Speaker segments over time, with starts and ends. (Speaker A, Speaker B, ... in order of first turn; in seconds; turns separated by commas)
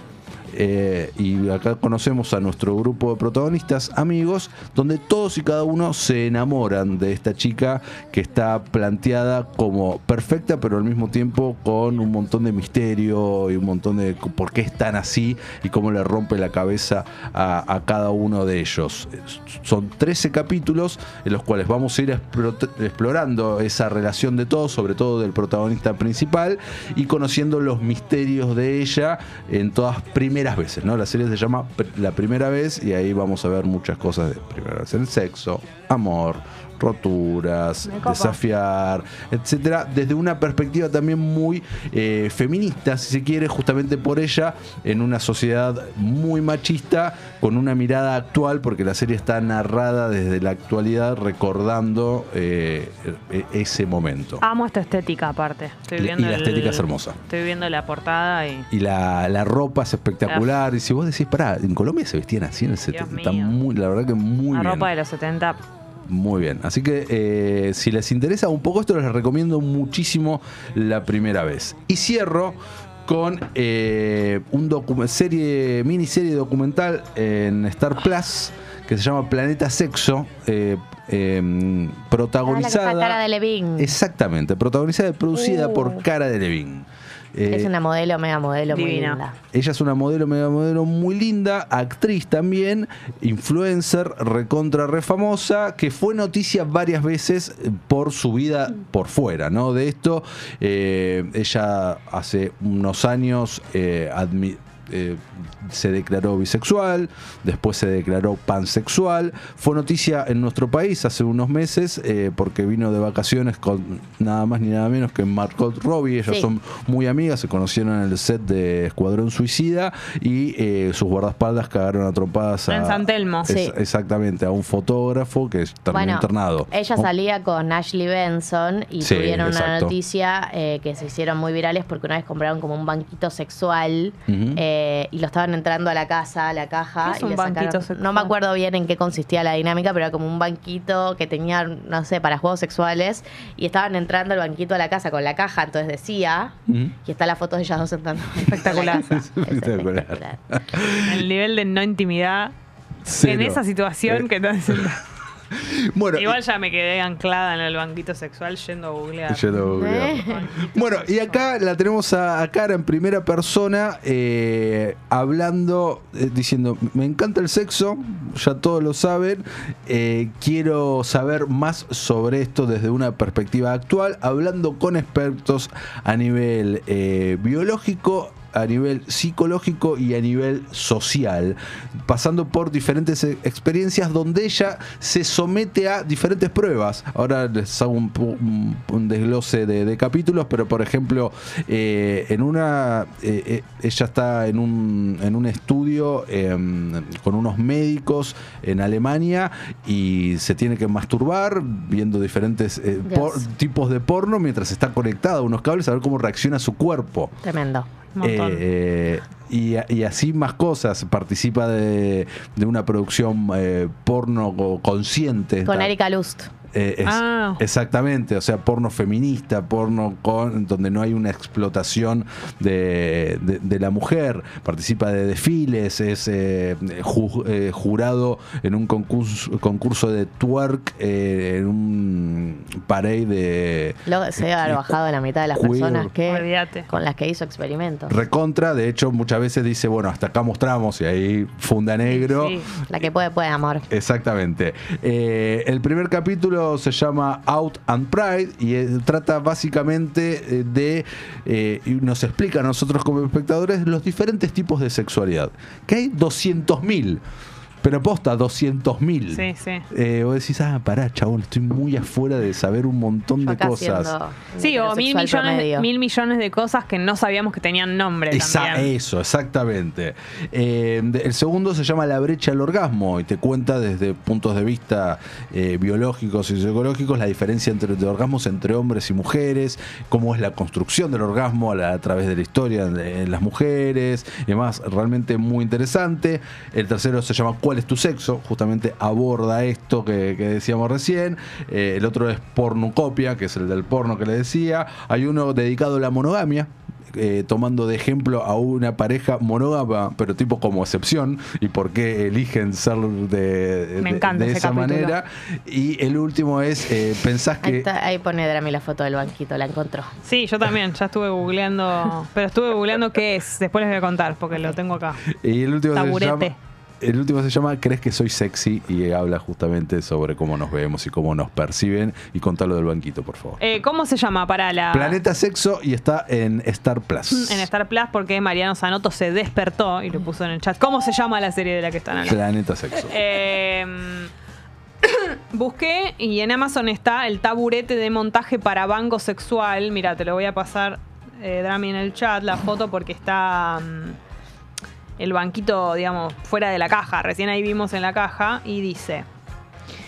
Speaker A: 0.5-54.4, Speaker B: 37.8-38.4, Speaker B: 54.4-58.7, Speaker A: 55.9-57.2, Speaker A: 58.7-64.9, Speaker B: 62.9-63.6, Speaker B: 64.5-65.6, Speaker A: 66.1-83.2, Speaker C: 82.5-84.0, Speaker A: 83.8-87.7, Speaker C: 85.6-85.9, Speaker C: 87.5-89.4, Speaker B: 88.7-89.2, Speaker A: 89.5-127.0, Speaker B: 122.7-123.5, Speaker C: 123.5-123.7, Speaker C: 125.9-150.4, Speaker A: 129.0-129.9, Speaker A: 134.3-134.6, Speaker B: 137.0-138.3, Speaker A: 146.7-146.9, Speaker B: 148.4-149.2, Speaker A: 148.8-151.2, Speaker B: 151.0-152.5, Speaker A: 153.1-154.8, Speaker B: 153.1-155.0, Speaker A: 155.6-156.4, Speaker B: 156.2-161.4, Speaker A: 159.3-207.3, Speaker C: 159.6-160.4, Speaker C: 203.1-203.4, Speaker C: 207.4-207.9, Speaker B: 208.2-208.6, Speaker A: 208.2-215.9, Speaker C: 215.6-216.5, Speaker A: 216.7-234.0, Speaker B: 217.0-217.6, Speaker C: 234.1-238.1, Speaker A: 235.5-236.1, Speaker B: 236.3-236.9, Speaker A: 238.1-242.6, Speaker B: 242.1-242.7, Speaker C: 242.9-243.9, Speaker A: 243.9-257.2, Speaker A: 257.8-264.1, Speaker B: 259.3-259.9, Speaker C: 263.4-265.9, Speaker B: 264.6-268.9, Speaker A: 268.3-307.9, Speaker B: 304.0-305.1, Speaker C: 307.6-310.1, Speaker B: 310.2-315.2, Speaker A: 315.4-323.6, Speaker B: 315.9-316.6, Speaker B: 323.6-325.2, Speaker A: 324.9-327.7, Speaker B: 327.3-332.4, Speaker A: 332.2-333.1, Speaker B: 333.1-334.3, Speaker B: 335.0-344.2, Speaker B: 345.2-349.2